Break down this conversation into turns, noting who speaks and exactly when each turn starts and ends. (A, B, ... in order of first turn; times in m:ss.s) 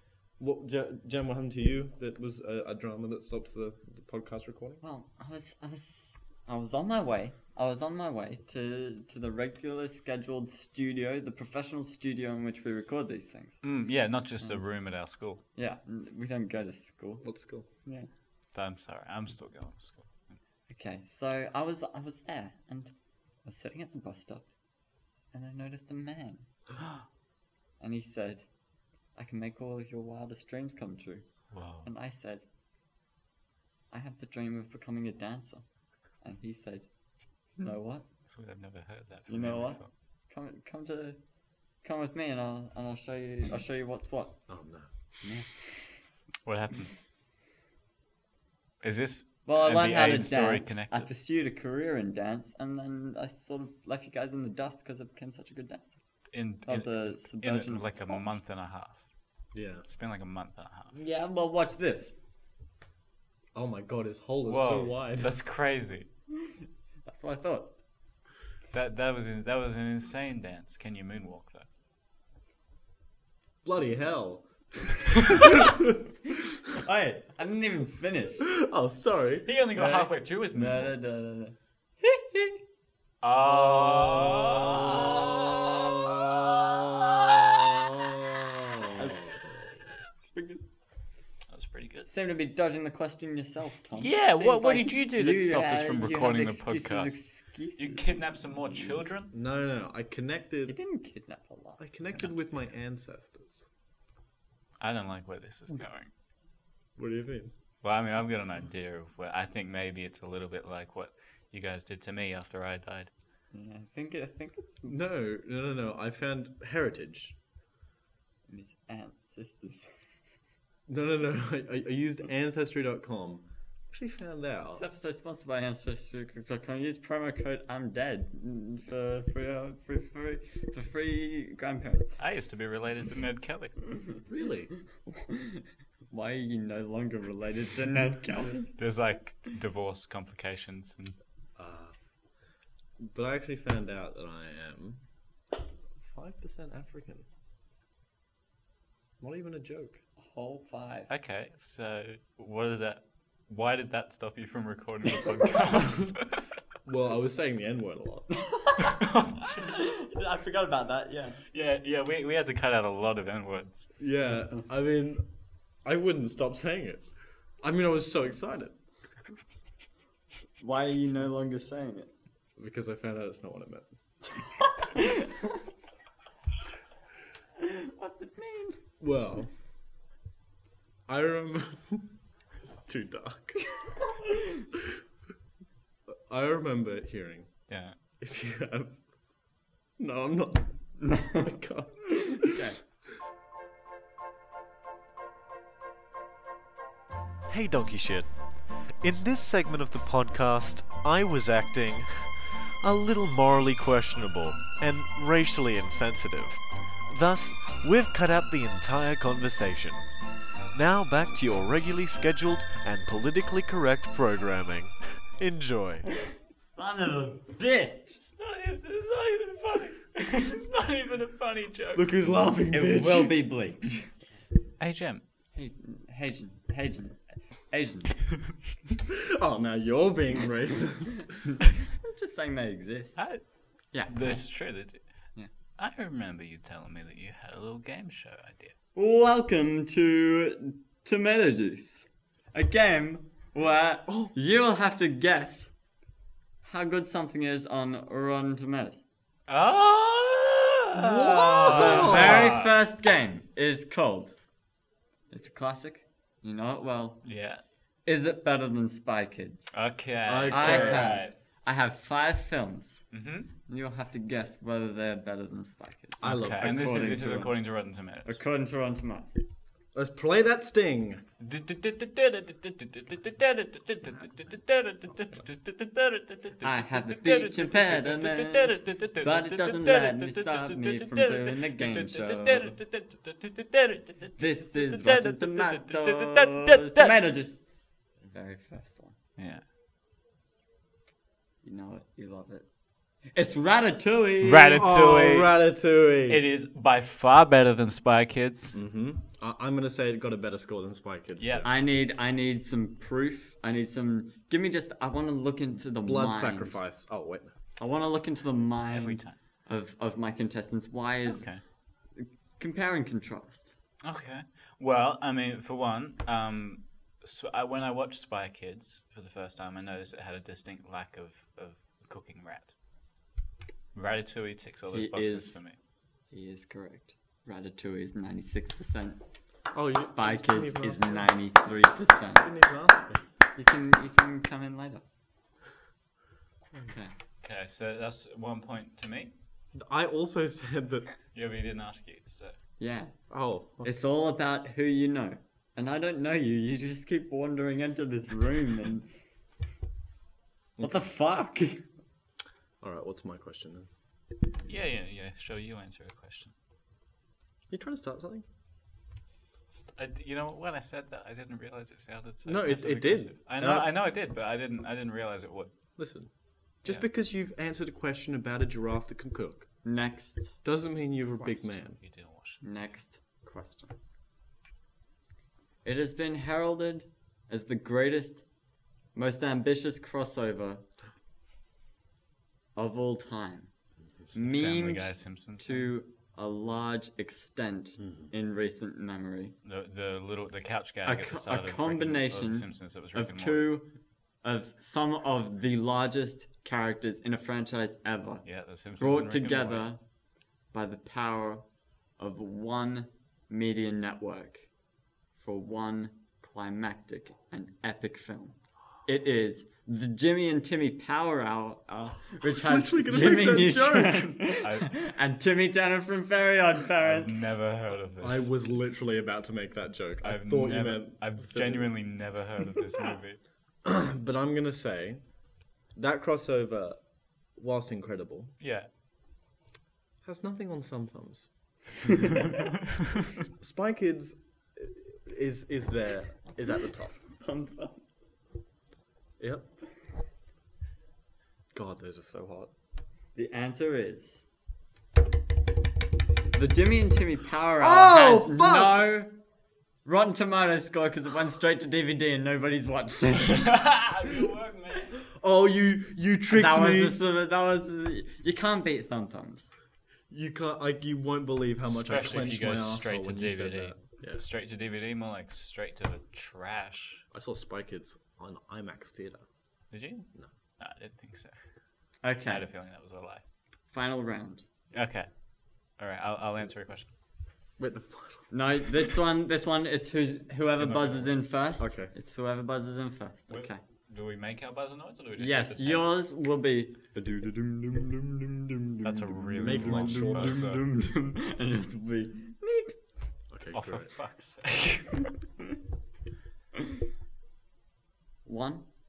0:00.4-0:04.8 A
0:04.8-0:13.6 B
0:13.6-0:15.4 C
0:15.5-0:17.2 B
0:17.2-0:17.6 A
0:18.5-0:20.4 C
0:20.7-0:22.9 B
0:23.4-0:24.4 B
0:25.3-0:26.4 B
0:27.8-0:28.4 B
0:29.2-0:31.2 B
0:31.5-0:31.9 C
0:31.8-0:32.4 B
0:33.9-0:35.6 B
0:36.2-0:36.9 B
0:37.6-0:38.0 B
0:38.2-0:39.9 C
0:39.3-0:41.2 B
0:41.8-0:44.4 B
0:44.5-0:44.9 A
0:46.4-0:46.9 C
0:48.8-0:51.1 C
0:49.4-0:56.0 B
0:56.3-0:59.0 C
0:56.6-0:58.3 B
0:59.5-0:59.8 A
0:59.8-1:01.0 C
1:00.9-1:02.1 B
1:03.5-1:05.3 A
1:04.4-1:06.1 C
1:07.0-1:07.7 B
1:08.7-1:11.7 C
1:13.6-1:14.5 A
1:15.3-1:16.0 A
1:16.8-1:18.5 B
1:18.4-1:20.1 A
1:19.4-1:20.9 C
1:19.8-1:22.6 B
1:23.2-1:26.0 C
1:23.5-1:29.4 A
1:28.9-1:29.4 B
1:30.3-1:30.6 B
1:31.5-1:32.1 C
1:32.1-1:38.1 B
1:34.0-1:37.2 C
1:37.8-1:39.3 C
1:39.3-1:40.7 A
1:40.7-1:41.9 B
1:41.8-1:43.7 A
1:44.8-1:46.1 C
1:47.0-1:47.5 A
1:47.8-1:53.1 C
1:53.5-1:54.9 B
1:54.9-1:57.3 A
1:58.5-1:59.9 B
2:00.9-2:04.8 A
2:04.7-2:12.2 B
2:12.2-2:13.7 C
2:14.3-2:14.7 A
2:15.3-2:18.7 B
2:18.8-2:21.2 C
2:21.6-2:21.9 A
2:23.0-2:25.0 A
2:26.0-2:27.2 A
2:29.2-2:30.0 A
2:30.2-2:31.1 B
2:31.1-2:36.4 C
2:36.8-2:38.4 A
2:38.5-2:38.9 B
2:38.8-2:40.0 C
2:39.6-2:41.4 B
2:41.5-2:43.9 C
2:44.0-2:45.2 A
2:45.8-2:47.0 A
2:47.6-2:48.7 A
2:50.6-2:52.1 B
2:52.6-2:53.9 A
2:54.4-2:55.6 B
2:57.6-2:58.8 B
2:59.0-2:59.5 A
3:01.1-3:02.1 A
3:02.6-3:03.6 A
3:06.1-3:07.5 A
3:07.7-3:08.0 C
3:08.2-3:09.0 A
3:10.0-3:10.7 A
3:11.0-3:11.5 B
3:11.3-3:12.5 A
3:12.3-3:12.8 B
3:17.5-3:30.1 D
3:30.7-3:36.1 D
3:36.7-3:38.2 B
3:38.2-3:42.1 C
3:41.9-3:43.3 A
3:42.7-3:44.1 B
3:44.8-3:45.2 C
3:45.5-3:48.2 B
3:49.1-3:51.4 A
3:51.9-3:53.2 B
3:53.2-3:53.4 C
3:53.9-3:54.4 B
3:54.0-3:55.0 C
3:55.8-3:58.7 C
3:58.9-4:05.7 B
4:04.1-4:04.3 A
4:06.6-4:09.0 B
4:09.5-4:12.7 C
4:10.9-4:12.6 A
4:11.6-4:14.3 B
4:15.3-4:17.2 B
4:17.2-4:17.6 C
4:18.0-4:19.7 B
4:19.7-4:21.3 C
4:20.2-4:21.2 A
4:20.5-4:23.1 B
4:23.1-4:23.5 C
4:23.6-4:27.6 B
4:26.2-4:27.4 A
4:26.2-4:28.4 C
4:28.2-4:29.4 B
4:29.9-4:31.2 A
4:31.4-4:47.1 C
4:36.6-4:42.8 B
4:44.4-4:47.6 B
4:48.2-4:49.2 B
4:49.4-4:49.6 C
4:51.6-4:52.6 B
4:53.3-4:54.8 B
4:54.4-4:55.5 C
4:54.7-4:56.4 A
4:56.3-4:58.8 C
4:58.7-5:01.7 A
5:01.4-5:01.7 C
5:01.6-5:06.8 B
5:06.0-5:07.5 A
5:07.8-5:11.5 B
5:08.9-5:09.4 C
5:11.3-5:11.6 C
5:12.2-5:13.7 B
5:14.0-5:22.7 C
5:23.9-5:25.8 C
5:24.9-5:25.6 B
5:26.3-5:29.2 B
5:29.7-5:31.3 A
5:29.9-5:32.5 B
5:32.4-5:33.2 A
5:33.6-5:35.0 B
5:36.8-5:37.1 B
5:37.4-5:39.3 C
5:39.7-5:41.1 A
5:41.3-5:42.6 C
5:42.8-5:43.2 B
5:43.3-5:43.9 A
5:43.8-5:49.1 B
5:50.8-5:51.8 B
5:52.8-5:53.9 A
5:54.6-5:56.5 C
5:57.7-5:58.4 A
6:00.0-6:05.7 C
6:02.4-6:03.8 A
6:06.0-6:06.3 A
6:06.8-6:09.7 A
6:09.8-6:10.6 B
6:10.6-6:12.0 A
6:11.4-6:13.0 C
6:12.6-6:14.0 B
6:15.8-6:18.4 B
6:19.1-6:20.8 B
6:22.7-6:23.7 B
6:24.3-6:25.9 C
6:24.3-6:29.5 B
6:29.6-6:33.7 C
6:31.0-6:38.4 B
6:38.4-6:39.9 C
6:39.0-6:40.0 B
6:40.7-6:41.6 B
6:42.2-6:44.7 B
6:45.3-6:57.6 B
6:52.4-6:54.4 A
6:54.6-6:55.0 C
6:57.0-6:58.5 C
6:58.2-7:01.9 A
7:00.2-7:03.4 C
7:03.8-7:05.2 A
7:05.9-7:07.0 A
7:07.6-7:08.5 A
7:08.6-7:08.9 C
7:10.2-7:11.5 A
7:13.6-7:17.2 A
7:17.4-7:18.0 B
7:19.4-7:19.7 A
7:21.7-7:22.7 A
7:23.3-7:24.4 B
7:26.5-7:29.3 B
7:27.8-7:29.1 A
7:30.0-7:33.7 B
7:33.5-7:35.2 C
7:35.3-7:37.2 A
7:36.5-7:39.7 B
7:40.3-7:44.4 A
7:41.9-7:47.2 C
7:47.3-7:49.4 A
7:49.9-7:50.3 C
7:50.8-7:51.5 C
7:52.2-7:52.7 B
7:52.4-7:53.4 C
7:53.9-7:54.6 B
7:54.9-7:55.3 C
7:56.0-7:57.1 C
7:57.8-7:58.5 A
7:58.5-8:03.8 B
8:00.8-8:01.3 C
8:01.8-8:02.1 A
8:03.5-8:06.1 C
8:05.4-8:13.0 B
8:09.0-8:10.8 C
8:09.6-8:10.7 A
8:13.5-8:14.1 A
8:13.7-8:15.3 C
8:18.4-8:18.9 B